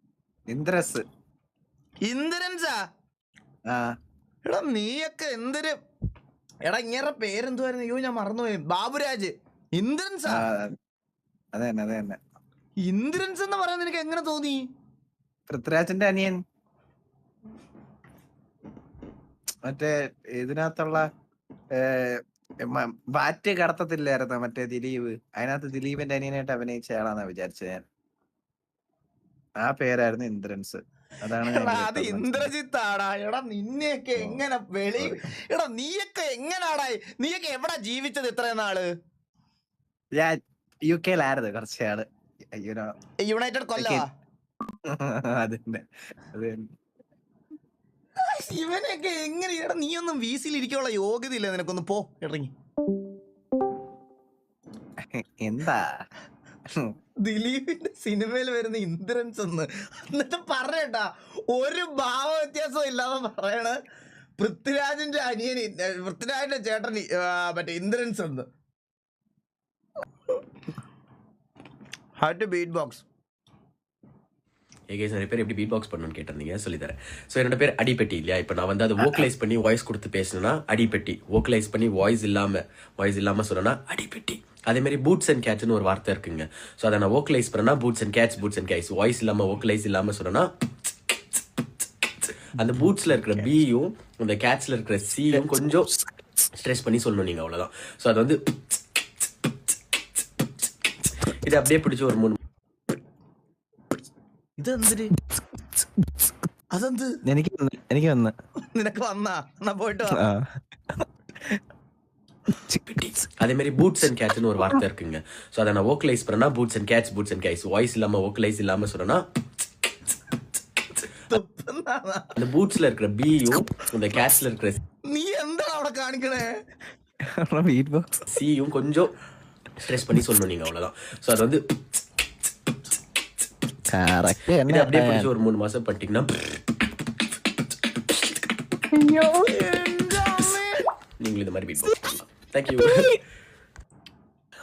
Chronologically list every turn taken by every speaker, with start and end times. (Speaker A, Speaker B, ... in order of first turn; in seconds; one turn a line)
Speaker A: 0.5-1.0
Speaker B: 2.0-2.8
Speaker A: 3.7-3.9
Speaker B: 4.5-5.8
Speaker B: 6.7-10.4
Speaker A: 10.3-10.8
Speaker A: 11.5-12.2
Speaker B: 12.9-14.7
Speaker A: 15.5-16.4
Speaker A: 19.6-21.1
Speaker A: 21.8-27.8
Speaker A: 29.6-32.5
Speaker B: 31.4-38.9
Speaker A: 40.1-42.9
Speaker B: 43.2-44.1
Speaker A: 44.9-46.6
Speaker B: 48.3-52.5
Speaker A: 55.0-55.8
Speaker B: 57.2-63.8
Speaker B: 64.4-68.5
Speaker B: 72.2-73.0
Speaker C: 74.9-90.5
Speaker C: 92.6-95.9
Speaker C: 96.6-98.4
Speaker C: 101.4-102.4
Speaker B: 104.6-105.1
Speaker B: 106.7-107.1
Speaker A: 107.3-108.3
Speaker B: 108.7-110.2
Speaker A: 110.2-110.5
Speaker C: 112.9-119.2
Speaker B: 121.3-122.3
Speaker C: 122.4-124.8
Speaker B: 125.1-126.5
Speaker A: 127.3-128.1
Speaker C: 128.3-129.1
Speaker C: 129.8-131.6
Speaker A: 133.9-135.0
Speaker C: 134.7-136.3
Speaker B: 139.4-140.9
Speaker C: 141.2-143.1